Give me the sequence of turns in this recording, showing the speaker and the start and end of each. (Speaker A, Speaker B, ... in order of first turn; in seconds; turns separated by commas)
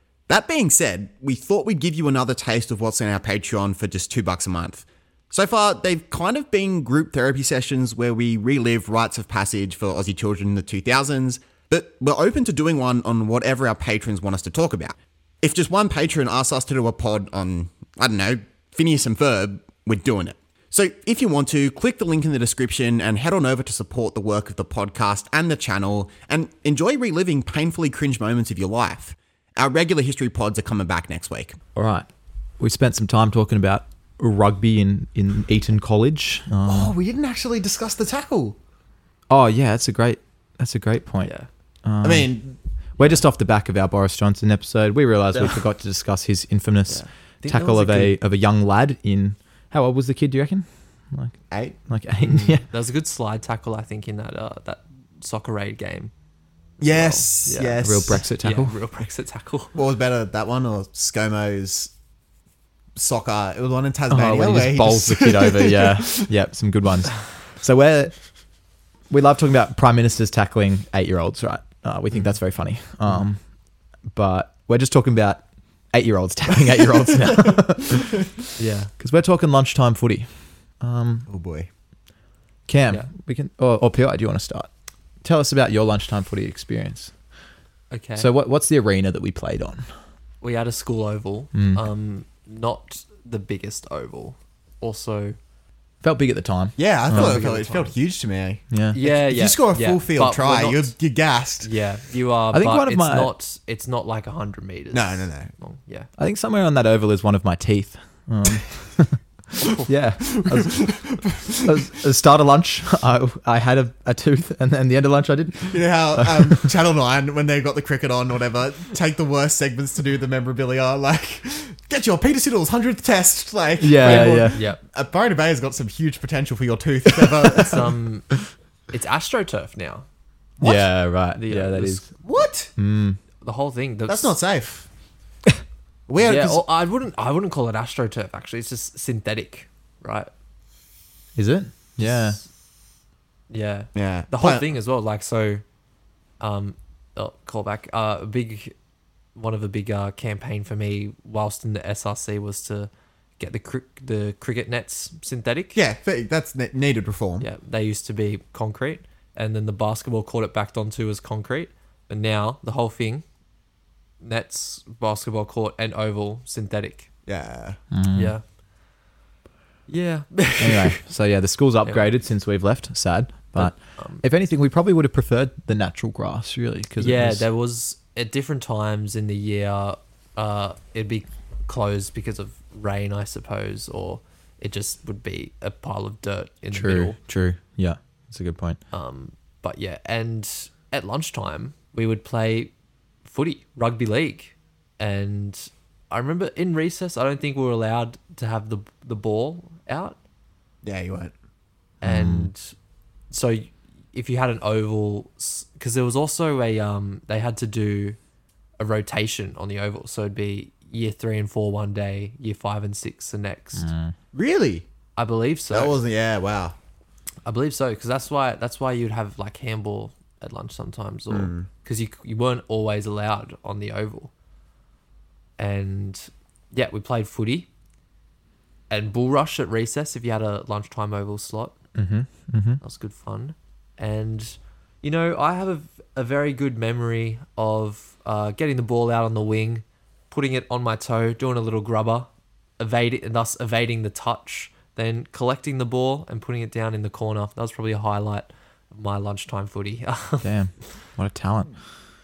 Speaker A: 0.3-31.6, Speaker B: 31.8-32.1, Speaker B: 32.6-36.9, Speaker A: 36.7-38.6, Speaker B: 39.3-41.3, Speaker C: 41.2-41.5, Speaker B: 41.9-42.3, Speaker A: 42.0-42.6, Speaker B: 43.0-51.4, Speaker C: 46.9-48.1, Speaker A: 51.5-51.8, Speaker B: 51.9-52.6, Speaker C: 52.2-56.1, Speaker C: 56.8-59.7, Speaker A: 56.8-58.2, Speaker B: 57.8-58.8, Speaker A: 59.8-61.9, Speaker A: 63.0-66.3, Speaker B: 64.1-68.2, Speaker B: 69.1-73.4, Speaker B: 74.1-78.3, Speaker C: 78.6-78.9, Speaker B: 79.0-80.3, Speaker B: 80.8-81.3, Speaker A: 81.3-81.7, Speaker B: 82.7-84.7, Speaker B: 85.2-87.1, Speaker C: 87.9-88.3, Speaker B: 88.2-89.8, Speaker C: 90.4-95.4, Speaker B: 91.5-91.8, Speaker B: 96.0-97.4, Speaker A: 96.8-101.7, Speaker C: 97.1-97.9, Speaker B: 98.7-99.0, Speaker C: 98.9-100.9, Speaker C: 101.6-106.1, Speaker B: 102.5-103.3, Speaker A: 104.9-105.5, Speaker B: 106.2-116.7, Speaker C: 109.6-109.9, Speaker A: 110.2-111.8, Speaker A: 115.7-127.9, Speaker B: 123.8-124.6, Speaker C: 124.0-124.8, Speaker C: 127.5-128.3, Speaker C: 128.9-130.1, Speaker B: 130.6-132.0, Speaker C: 131.3-132.1, Speaker A: 132.2-132.7, Speaker B: 132.8-133.2, Speaker C: 133.4-134.4, Speaker A: 134.1-134.9, Speaker A: 136.1-136.6, Speaker C: 136.2-140.3, Speaker B: 141.4-142.4, Speaker C: 142.0-142.4, Speaker C: 143.5-145.6, Speaker A: 143.9-144.7, Speaker C: 146.4-148.7, Speaker C: 149.3-155.8, Speaker A: 155.7-157.5, Speaker C: 157.4-163.2, Speaker C: 164.2-167.1, Speaker A: 167.3-167.8, Speaker B: 167.9-168.3, Speaker C: 168.1-168.4, Speaker C: 169.9-171.0, Speaker B: 170.6-177.4, Speaker C: 171.8-172.1, Speaker C: 173.6-174.2, Speaker C: 177.0-187.2, Speaker B: 186.7-188.8, Speaker C: 188.9-192.7, Speaker C: 193.2-200.2, Speaker A: 200.8-201.3, Speaker B: 202.0-202.5, Speaker C: 202.0-202.7, Speaker C: 203.3-208.2, Speaker C: 208.8-213.9, Speaker B: 213.8-214.1, Speaker A: 214.3-214.8, Speaker C: 215.2-215.9, Speaker A: 215.7-216.8, Speaker C: 217.4-224.3, Speaker A: 221.3-221.7, Speaker C: 225.6-227.7, Speaker C: 228.9-231.8, Speaker B: 232.0-232.8, Speaker C: 232.8-242.3, Speaker C: 242.8-250.5, Speaker B: 250.4-251.7